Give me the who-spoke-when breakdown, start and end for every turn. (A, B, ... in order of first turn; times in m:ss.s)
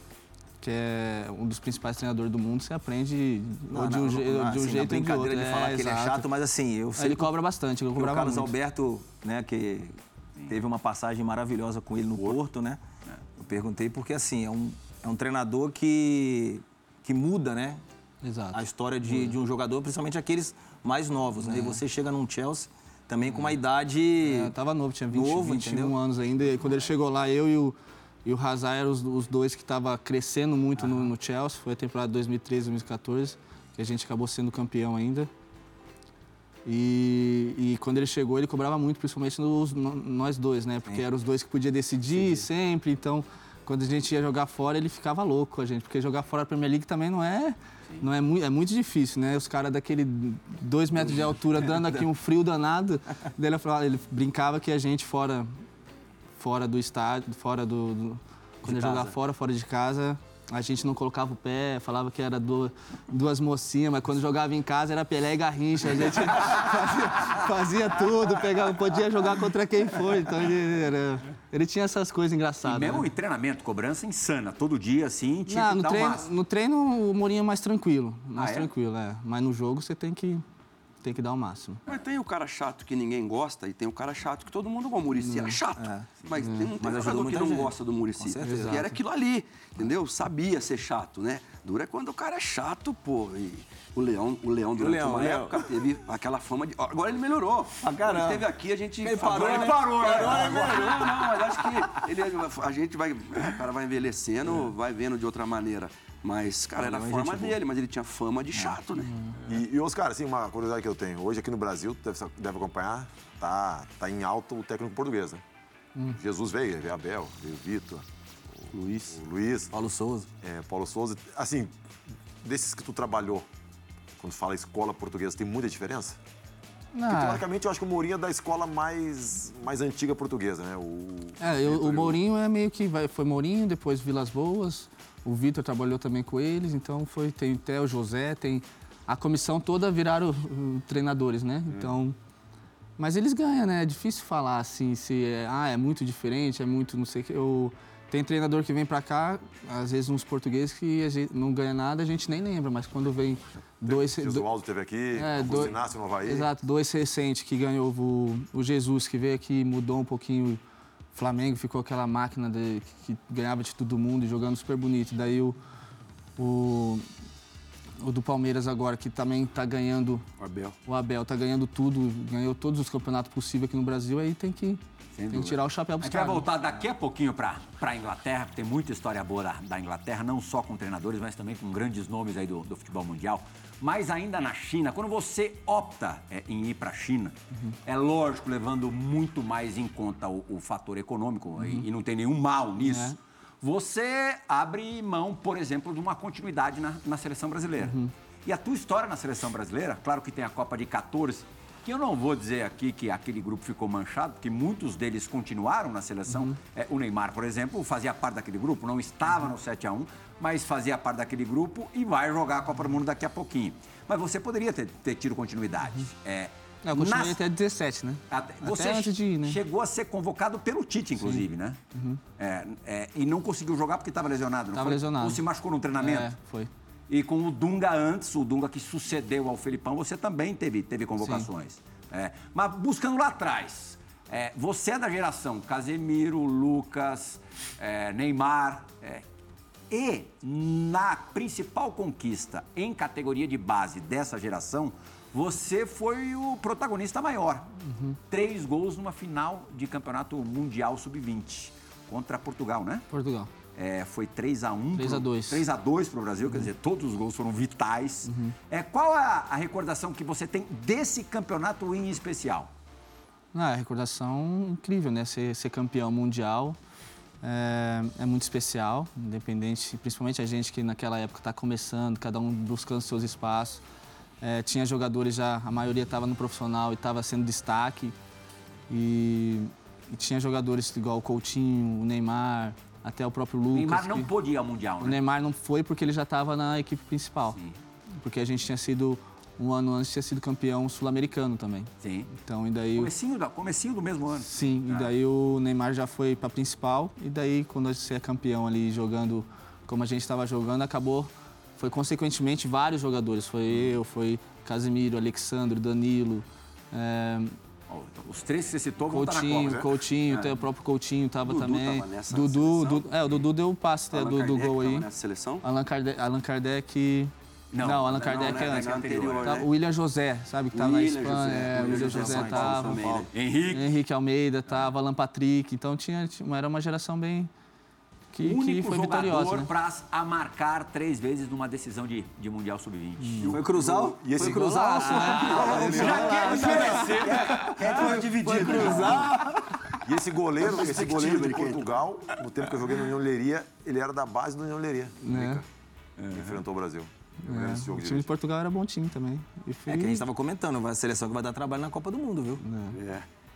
0:00.6-0:06.3 A
0:03.7-0:07.3 B
0:07.0-0:08.5 A
0:07.9-0:12.8 B
0:13.4-0:17.8 B
0:18.2-0:19.3 A
0:18.5-0:24.5 B
0:21.4-0:21.8 A
0:23.3-0:23.6 A
0:24.2-0:35.3 A
0:25.1-0:26.0 B
0:30.8-0:31.1 B
0:36.6-0:55.5 A
0:56.4-1:13.1 A
0:58.6-0:59.2 B
1:12.6-1:16.3 C
1:15.5-1:20.4 A
1:18.3-1:18.7 C
1:21.0-1:21.8 A
1:21.9-1:49.2 D
1:25.2-1:25.6 A
1:25.7-1:28.9 B
1:26.4-1:26.7 A
1:28.4-1:28.8 A
1:34.7-1:35.6 B
1:37.8-1:38.4 B
1:39.0-1:41.2 B
1:39.2-1:41.3 C
1:46.8-1:47.6 B
1:49.0-1:49.3 A
1:49.4-1:55.4 E
1:56.1-1:58.0 E
1:58.6-1:59.7 E
1:59.7-2:00.3 B
2:00.4-2:01.7 E
2:02.4-2:03.5 E
2:04.2-2:06.2 E
2:06.9-2:07.4 A
2:07.1-2:12.2 E
2:11.4-2:22.2 A
2:21.7-2:22.0 E
2:23.0-2:34.5 A
2:33.8-2:36.5 E
2:35.1-2:40.6 A
2:41.1-2:45.6 A
2:46.4-2:47.0 A
2:48.0-2:50.2 A
2:50.4-2:50.8 D
2:50.8-2:56.4 A
2:55.2-3:37.4 C
3:11.6-3:11.8 A
3:12.8-3:13.2 A
3:17.8-3:18.1 A
3:26.3-3:26.6 A
3:36.8-3:39.6 A
3:38.3-3:41.8 C
3:41.2-3:42.2 A
3:42.4-3:46.3 C
3:44.7-3:45.4 A
3:46.0-3:46.7 A
3:47.1-3:59.2 C
3:51.2-3:51.5 A
3:59.9-4:07.7 C
4:07.8-4:08.2 A
4:08.3-4:13.0 C
4:13.1-4:13.5 A
4:13.7-4:22.7 C
4:14.9-4:15.6 A
4:18.2-4:18.5 A
4:23.5-4:26.8 A
4:27.4-4:33.8 A
4:34.4-4:38.1 A
4:38.9-4:44.3 A
4:43.7-4:45.2 C
4:45.0-4:47.6 A
4:48.2-4:53.1 A
4:52.0-4:52.3 C
4:52.9-4:55.1 C
4:54.4-5:07.6 A
5:07.9-5:10.5 C
5:09.1-5:15.0 A
5:11.4-5:13.1 D
5:14.1-5:15.6 D
5:15.6-5:23.0 A
5:17.7-5:19.6 C
5:18.0-5:19.7 D
5:20.7-5:23.3 D
5:21.7-5:23.3 B
5:23.3-5:23.9 C
5:23.7-5:27.5 A
5:24.7-5:24.9 C
5:28.3-5:29.7 A
5:28.4-5:33.6 C
5:33.2-5:33.5 A
5:33.4-5:36.8 E
5:33.4-5:39.6 B
5:34.3-5:37.0 A
5:35.8-5:39.2 C
5:36.2-5:39.3 D
5:40.0-5:45.6 E
5:40.6-5:41.9 D
5:45.2-5:45.6 A
5:46.2-5:46.6 C
5:46.3-5:48.3 E
5:47.4-5:50.2 A
5:49.9-5:52.6 B
5:52.6-5:53.0 A
5:52.9-5:53.2 D